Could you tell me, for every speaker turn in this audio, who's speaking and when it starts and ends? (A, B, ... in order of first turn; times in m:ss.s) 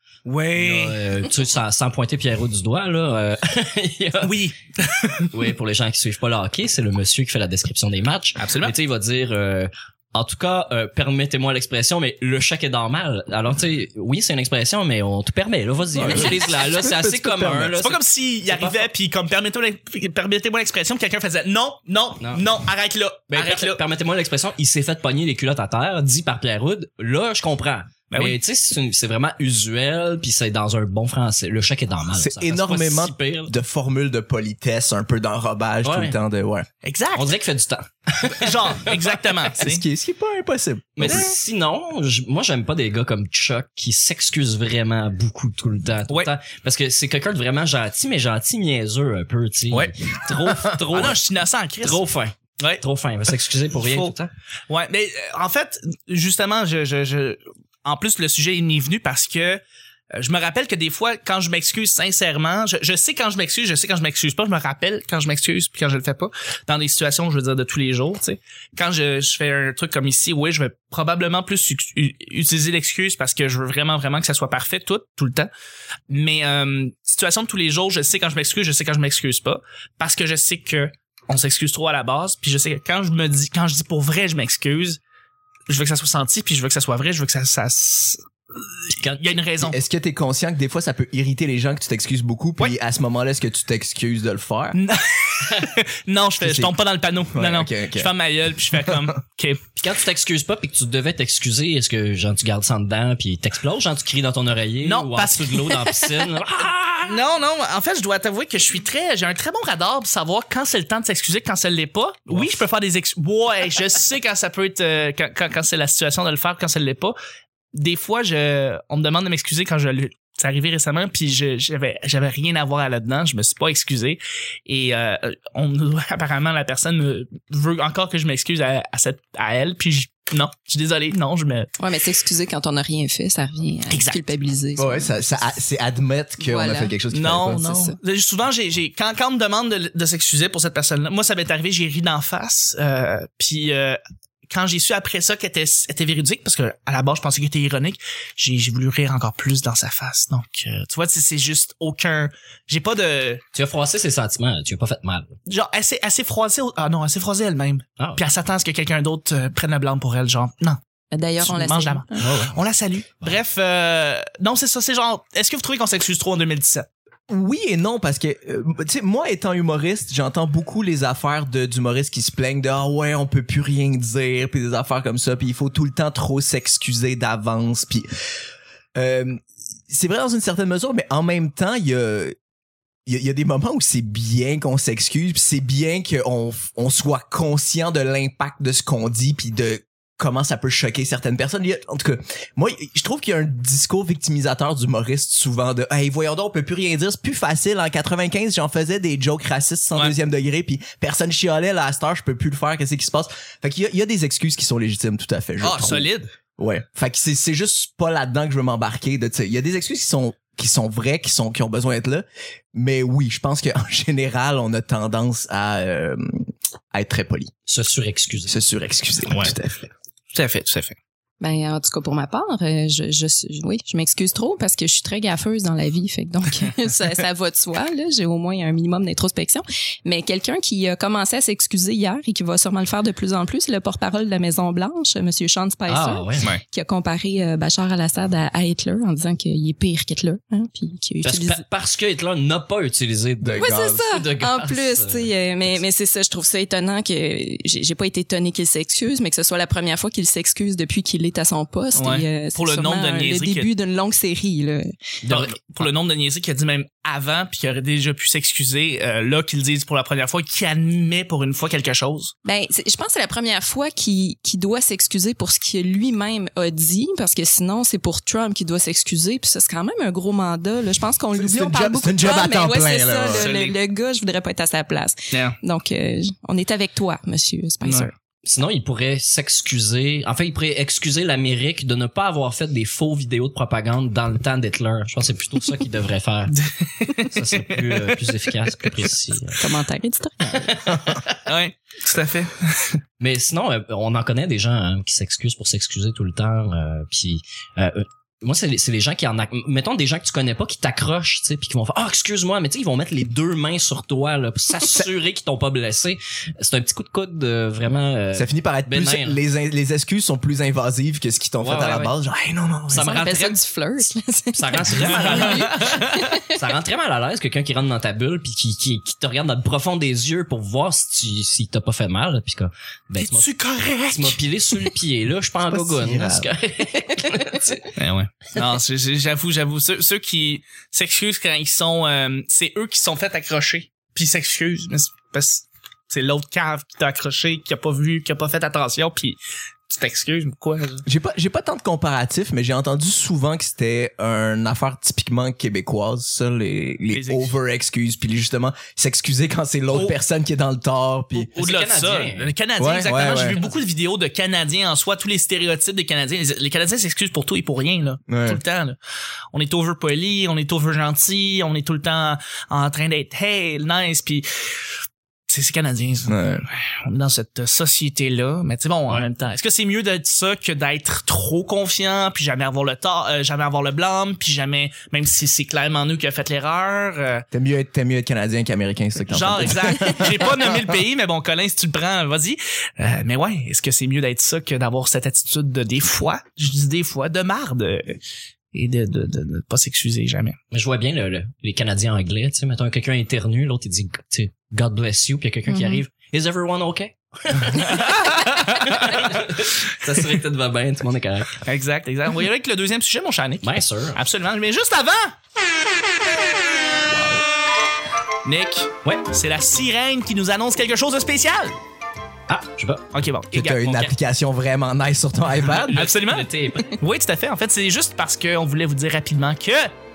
0:00.3-0:01.0 A
0:00.5-0:04.5 B
0:04.2-0:05.3 A
0:05.3-0:18.9 B
0:08.4-0:08.8 A
0:15.9-0:17.8 C
0:17.8-0:23.8 A
0:22.2-0:22.4 B
0:23.3-0:33.5 B
0:28.1-0:28.4 A
0:32.1-0:36.7 C
0:35.8-0:36.2 B
0:36.8-0:37.3 A
0:37.1-0:39.0 B
0:38.3-0:39.8 A
0:39.6-0:41.3 C
0:41.0-0:51.2 B
0:41.0-0:41.3 A
0:50.9-0:52.0 A
0:51.8-0:54.3 B
0:53.7-0:54.1 A
0:54.7-0:59.6 A
1:00.2-1:15.5 A
1:16.1-1:25.0 A
1:25.7-1:29.8 A
1:29.6-1:34.8 C
1:34.8-1:39.6 A
1:36.4-1:36.8 C
1:37.3-1:38.1 C
1:39.8-1:47.2 B
1:44.8-1:45.7 A
1:47.0-1:57.2 A
1:52.3-1:52.6 B
1:57.8-2:11.7 A
2:11.8-2:15.2 D
2:13.9-2:14.3 A
2:14.8-2:17.7 C
2:16.4-2:17.0 D
2:17.1-2:33.4 A
2:17.5-2:18.0 D
2:33.5-2:35.3 B
2:35.5-2:40.8 A
2:41.1-2:42.2 D
2:41.4-2:46.9 A
2:42.2-2:42.5 B
2:47.3-2:58.1 C
2:59.0-3:02.4 C
3:03.1-3:37.5 C
3:25.6-3:26.3 A
3:37.7-3:38.6 B
3:38.4-3:39.9 C
3:39.3-3:39.5 B
3:40.3-3:41.0 A
3:41.4-4:01.6 D
3:55.9-3:56.5 B
4:01.2-4:05.8 B
4:03.4-4:04.0 C
4:03.6-4:14.8 D
4:12.0-4:13.7 A
4:15.2-4:15.9 B
4:15.3-4:22.3 A
4:22.4-4:38.1 D
4:31.3-4:33.5 C
4:33.3-4:33.8 A
4:35.3-4:35.6 A
4:37.8-4:38.1 A
4:38.4-4:46.6 B
4:46.5-4:48.1 A
4:47.3-4:49.7 B
4:49.6-4:50.8 D
4:50.7-4:51.4 B
4:51.4-4:53.0 A
4:53.2-5:09.4 B
5:08.3-5:13.2 C
5:11.6-5:12.2 B
5:12.9-5:13.6 B
5:12.9-5:16.5 D
5:14.6-5:23.5 B
5:14.9-5:16.1 A
5:23.2-5:24.4 A
5:24.1-5:28.0 B
5:25.7-5:26.5 C
5:28.0-5:41.0 A
5:41.1-5:51.5 C
5:47.1-5:47.5 A
5:49.9-5:50.2 B
5:51.3-5:52.5 B
5:51.6-5:59.0 A
5:52.8-5:53.6 C
5:58.3-5:58.6 C
5:59.5-6:04.4 A
6:05.5-6:06.4 A
6:06.3-6:06.7 C
6:06.9-6:17.4 A
6:17.5-6:20.9 C
6:19.3-6:28.2 A
6:28.7-6:30.6 A
6:30.7-6:41.6 B
6:35.7-6:36.0 D
6:37.7-6:39.4 A
6:41.6-6:45.4 A
6:43.6-6:44.2 B
6:48.4-6:51.8 A
6:52.5-6:53.0 B
6:53.1-6:53.8 A
6:53.5-6:56.0 C
6:53.7-6:54.1 B
6:55.7-6:57.0 B
6:56.0-6:59.9 A